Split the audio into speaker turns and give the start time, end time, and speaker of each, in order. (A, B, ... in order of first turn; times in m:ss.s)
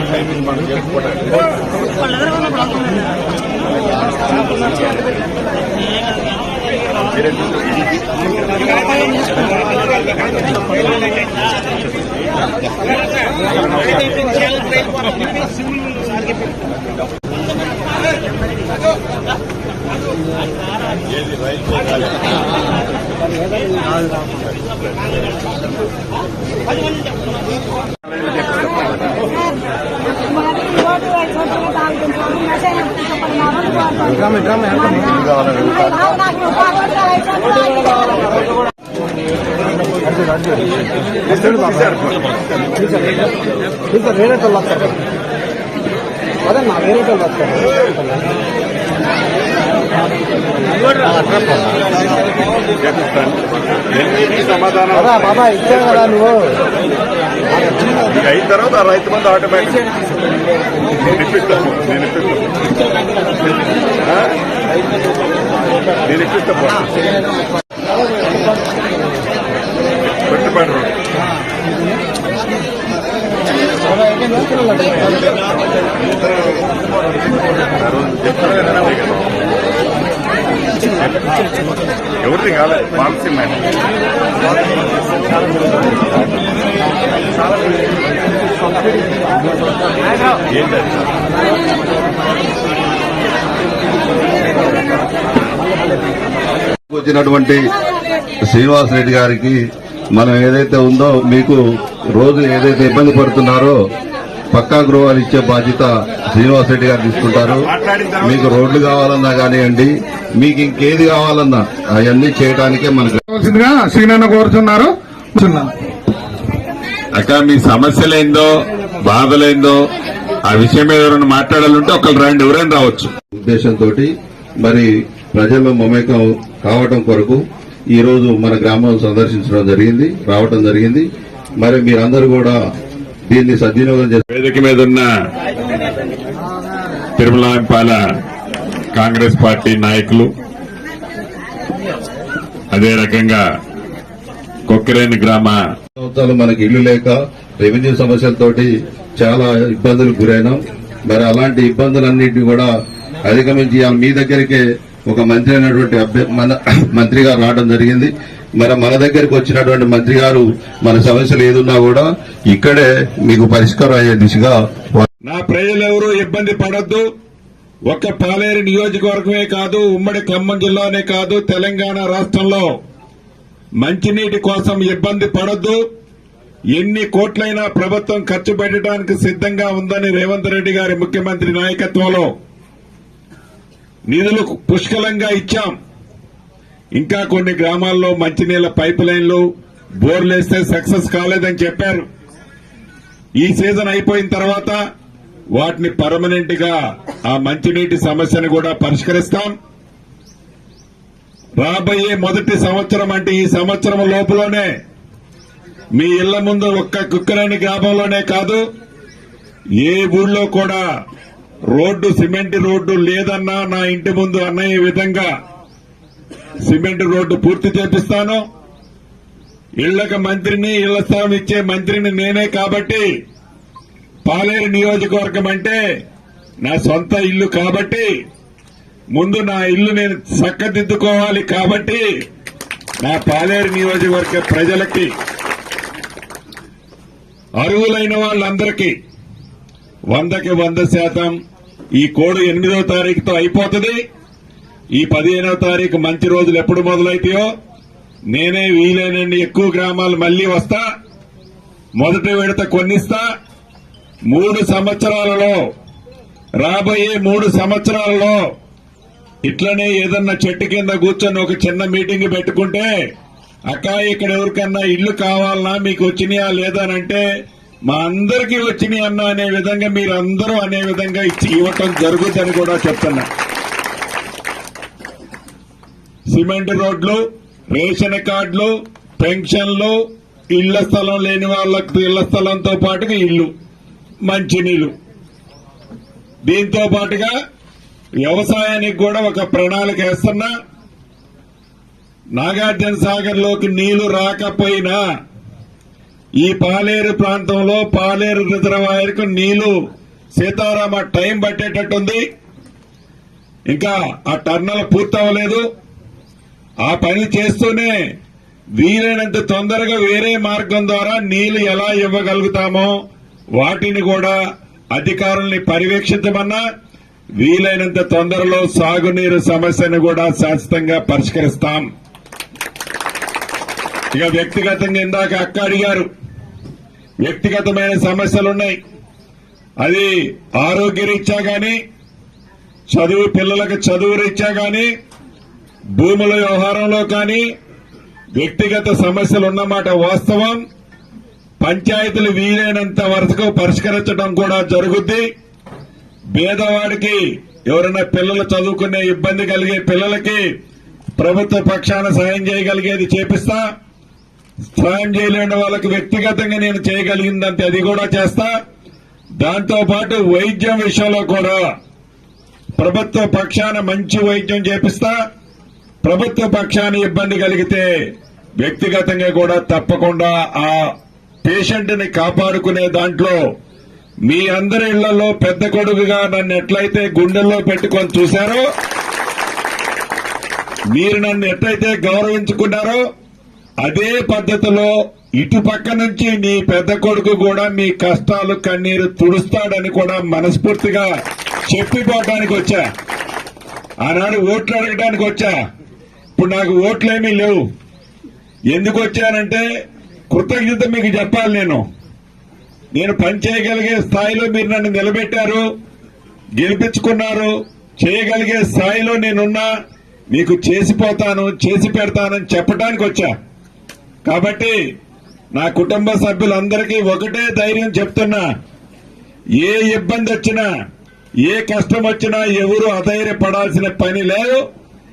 0:00.5-0:01.0 A
0:30.5-0:33.7 A
0:34.4-0:35.1 B
0:35.1-0:35.8 C
0:36.2-0:37.6 A
0:41.4-0:42.0 A
0:44.0-0:44.8 B
0:46.5-0:48.1 B
0:52.8-0:53.4 D
0:53.9-0:56.1 D
0:56.2-0:56.5 B
0:58.1-0:59.8 D
1:01.1-1:02.5 D
1:06.1-1:06.9 D
1:10.3-1:10.9 D
1:18.2-1:18.9 A
1:22.3-1:23.2 D
1:22.3-1:23.6 A
1:36.9-1:37.7 C
1:38.5-1:39.6 C
1:40.2-1:41.6 C
1:42.2-1:43.8 C
1:44.6-1:47.7 C
1:47.8-1:48.4 D
1:48.2-1:53.2 C
1:53.3-1:55.7 B
1:57.2-1:58.5 D
1:59.0-1:59.8 D
2:00.5-2:03.1 D
2:03.4-2:04.1 C
2:04.6-2:07.4 C
2:07.9-2:11.1 C
2:11.6-2:12.6 C
2:13.3-2:14.2 C
2:14.3-2:15.1 D
2:17.2-2:18.0 D
2:18.9-2:20.3 D
2:22.7-2:23.4 D
2:24.7-2:25.6 D
2:26.0-2:32.7 C
2:33.2-2:45.0 C
2:45.2-2:47.0 D
2:47.9-2:52.7 D
2:53.8-2:55.8 D
2:56.8-3:02.3 D
3:04.1-3:05.7 D
3:06.9-3:09.4 D
3:10.0-3:12.1 D
3:13.4-3:14.8 D
3:15.6-3:19.5 D
3:21.6-3:24.7 D
3:26.0-3:28.6 D
3:29.8-3:30.8 D
3:31.7-3:35.3 D
3:36.6-3:38.4 D
3:39.8-3:43.1 D
3:44.2-3:45.8 D
3:46.6-3:48.1 D
3:49.1-3:52.0 D
3:53.0-3:55.1 D
3:57.6-3:58.9 D
4:00.1-4:01.3 D
4:02.0-4:04.0 D
4:05.0-4:07.5 D
4:08.3-4:10.8 D
4:12.0-4:13.2 D
4:14.3-4:15.6 D
4:16.6-4:18.4 D
4:19.4-4:22.9 D
4:23.7-4:27.2 D
4:27.9-4:33.3 D
4:36.3-4:37.2 D
4:37.7-4:40.0 D
4:40.5-4:43.5 D
4:44.2-4:44.9 D
4:46.5-4:47.3 D
4:48.2-4:50.5 D
4:52.4-4:55.0 D
4:56.4-4:59.7 D
5:00.4-5:02.2 D
5:03.7-5:05.6 D
5:06.8-5:07.9 D
5:08.8-5:12.9 D
5:13.6-5:14.4 D
5:14.9-5:16.6 D
5:17.4-5:21.9 D
5:24.1-5:26.1 D
5:27.2-5:28.8 D
5:29.8-5:31.8 D
5:32.9-5:34.9 D
5:36.0-5:37.4 D
5:38.4-5:40.6 D
5:41.6-5:45.2 D
5:46.3-5:50.4 D
5:51.2-5:53.6 D
5:54.7-5:58.5 D
5:59.4-6:01.6 D
6:02.8-6:05.1 D
6:06.0-6:07.9 D
6:08.6-6:10.8 D
6:11.4-6:13.4 D
6:14.2-6:18.6 D
6:20.9-6:23.0 D
6:23.8-6:31.1 D
6:31.7-6:32.8 D
6:34.0-6:35.5 D
6:36.3-6:37.6 D
6:38.7-6:39.6 D
6:40.3-6:41.8 D
6:42.9-6:45.6 D
6:46.6-6:49.7 D
6:50.3-6:53.3 D
6:54.2-6:54.8 D
6:55.5-6:58.4 D
6:59.6-7:00.6 D
7:01.4-7:04.6 D